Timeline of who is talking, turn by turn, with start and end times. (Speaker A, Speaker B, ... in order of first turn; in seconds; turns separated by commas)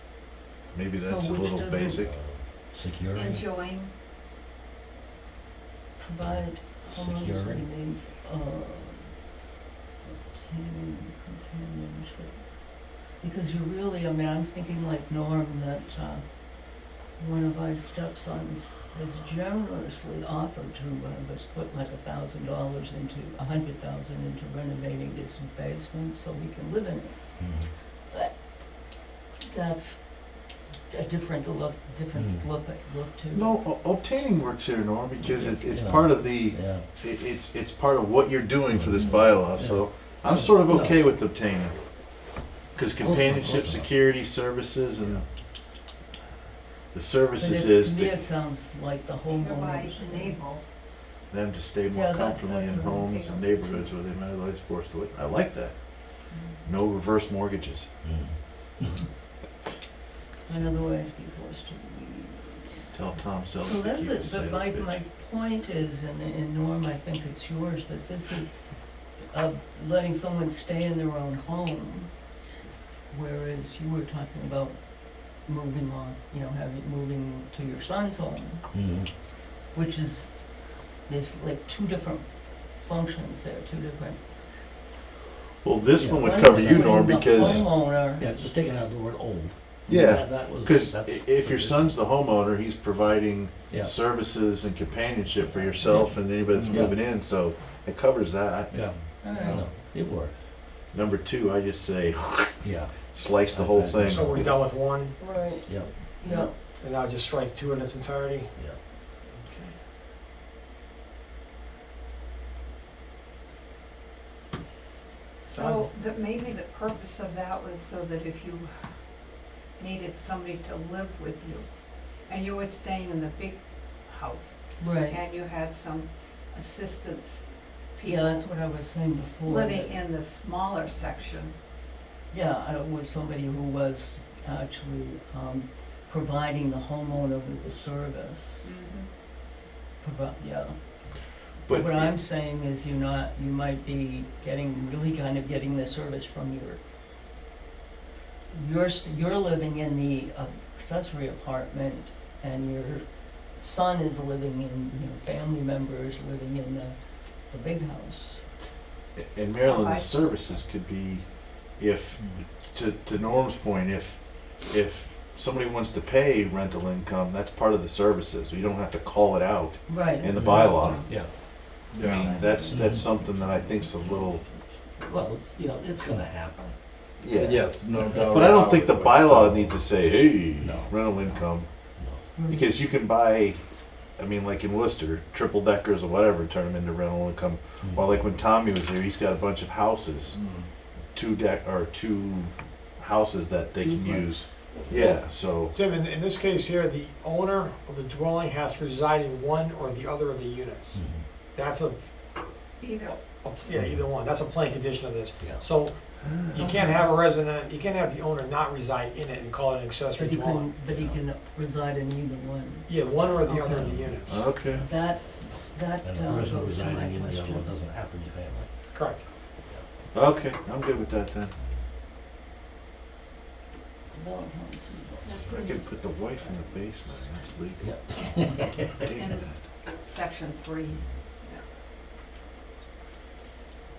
Speaker A: 0.7-2.2, Speaker B: 0.9-2.0, Speaker C: 2.0-3.4, Speaker D: 3.1-3.9, Speaker B: 6.0-9.3, Speaker C: 6.2-7.6, Speaker B: 10.0-33.6, Speaker C: 27.4-27.7, Speaker C: 32.1-32.4, Speaker A: 33.3-45.2, Speaker C: 35.2-36.9, Speaker C: 38.7-41.1, Speaker C: 43.0-43.9, Speaker A: 46.9-48.2, Speaker B: 47.4-50.4, Speaker D: 49.4-50.6, Speaker A: 51.3-57.9, Speaker B: 51.9-53.9, Speaker C: 58.0-58.9, Speaker B: 60.5-62.9, Speaker A: 62.9-65.0, Speaker B: 63.6-72.3, Speaker B: 73.1-79.1, Speaker C: 78.7-79.1, Speaker B: 79.7-84.6, Speaker A: 85.6-87.7, Speaker C: 86.0-92.0, Speaker B: 86.1-88.3, Speaker A: 89.9-99.0, Speaker C: 93.7-94.0, Speaker B: 95.8-96.1, Speaker C: 95.8-97.0, Speaker C: 98.7-100.4, Speaker B: 99.2-99.7, Speaker A: 100.9-104.5, Speaker C: 102.6-104.5, Speaker E: 104.1-105.6, Speaker B: 105.1-106.5, Speaker C: 105.6-106.0, Speaker E: 106.6-108.5, Speaker E: 109.4-109.7, Speaker D: 115.4-128.5, Speaker E: 115.5-115.9, Speaker B: 124.8-125.2, Speaker B: 128.0-130.0, Speaker D: 129.4-131.5, Speaker B: 132.3-138.7, Speaker D: 138.6-139.1, Speaker B: 140.0-146.8, Speaker A: 141.1-142.1, Speaker B: 148.5-158.5, Speaker A: 159.2-171.2, Speaker D: 159.7-159.9, Speaker B: 169.9-171.4, Speaker C: 170.4-171.3, Speaker F: 171.9-172.4, Speaker A: 171.9-174.4, Speaker B: 172.0-175.4, Speaker C: 172.7-173.0, Speaker C: 175.0-176.7, Speaker A: 177.2-181.7, Speaker F: 177.3-179.8, Speaker C: 180.6-181.4, Speaker C: 182.0-182.2, Speaker B: 182.3-182.7, Speaker A: 182.5-183.6, Speaker A: 184.2-190.3, Speaker C: 187.8-188.2, Speaker F: 190.3-190.7, Speaker A: 191.1-195.7, Speaker E: 195.7-202.0, Speaker C: 200.9-201.3, Speaker D: 202.8-203.2, Speaker E: 203.2-210.7, Speaker C: 205.4-205.7, Speaker A: 206.2-206.8, Speaker B: 206.6-207.1, Speaker B: 210.1-217.7, Speaker C: 210.8-211.2, Speaker E: 212.9-214.3, Speaker C: 213.7-214.1, Speaker A: 214.3-214.9, Speaker C: 216.0-218.7, Speaker E: 218.9-219.3, Speaker C: 219.6-219.9, Speaker A: 220.1-221.5, Speaker B: 224.1-225.6, Speaker D: 225.3-226.6, Speaker A: 225.5-228.1, Speaker C: 227.8-229.2, Speaker A: 229.0-229.7, Speaker D: 229.2-231.6, Speaker C: 230.9-231.2